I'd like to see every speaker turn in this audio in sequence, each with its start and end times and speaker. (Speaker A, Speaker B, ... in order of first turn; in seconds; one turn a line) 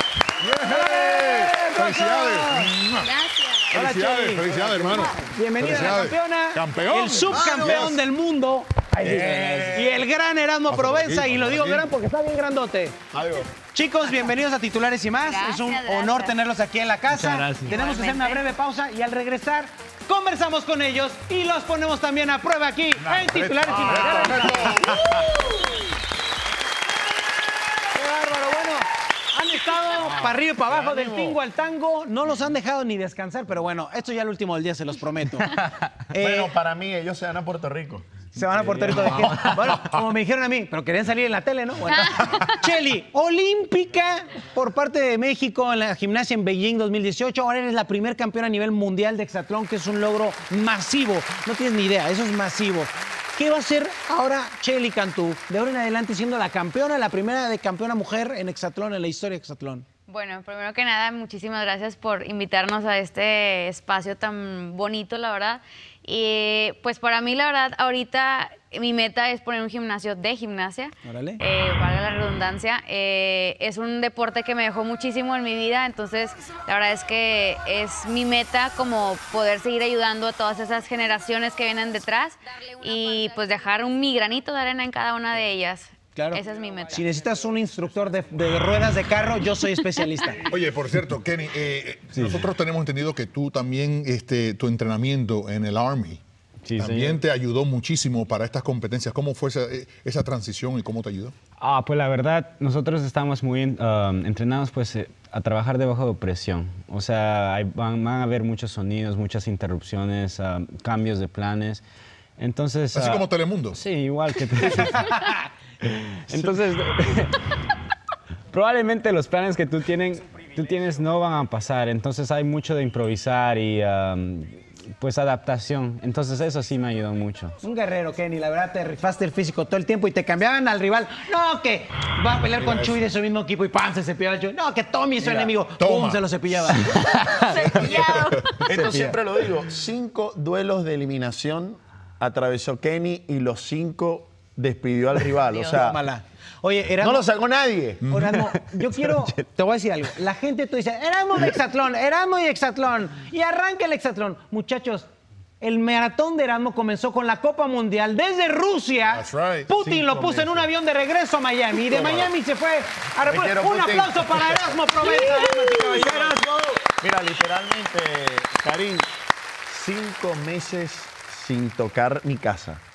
Speaker A: 0.4-3.1
Speaker B: 0.5-2.7
Speaker C: 3.0-3.7
Speaker B: 3.7-13.0
Speaker A: 3.7-8.0
Speaker D: 7.4-7.9
Speaker D: 9.0-9.8
Speaker A: 9.0-10.0
Speaker A: 10.7-11.9
Speaker D: 13.1-13.5
Speaker B: 13.7-25.2
Speaker C: 15.2-16.3
Speaker C: 17.6-18.4
Speaker A: 23.0-25.3
Speaker B: 27.9-35.6
Speaker D: 30.7-31.3
Speaker B: 36.1-36.5
Speaker D: 36.2-38.1
Speaker B: 38.3-59.9
Speaker E: 38.7-39.4
Speaker C: 60.1-87.0
Speaker B: 71.0-71.4
Speaker B: 86.2-90.4
Speaker A: 90.5-96.2
Speaker E: 92.2-92.4
Speaker E: 96.7-97.2
Speaker A: 96.8-101.3
Speaker E: 101.6-111.8
Speaker E: 112.4-115.2
Speaker A: 112.9-113.8
Speaker E: 115.8-117.4
Speaker E: 118.5-127.6
Speaker B: 127.6-137.4
Speaker A: 132.6-133.0
Speaker A: 135.2-136.2
Speaker C: 137.5-138.5
Speaker D: 137.8-146.0
Speaker E: 138.6-139.1
Speaker B: 145.5-147.3
Speaker D: 147.0-148.0
Speaker A: 148.0-148.4
Speaker B: 148.1-155.1
Speaker B: 155.6-166.4
Speaker A: 159.1-159.7
Speaker D: 159.8-160.7
Speaker D: 161.9-162.3
Speaker D: 163.2-169.1
Speaker D: 169.7-172.8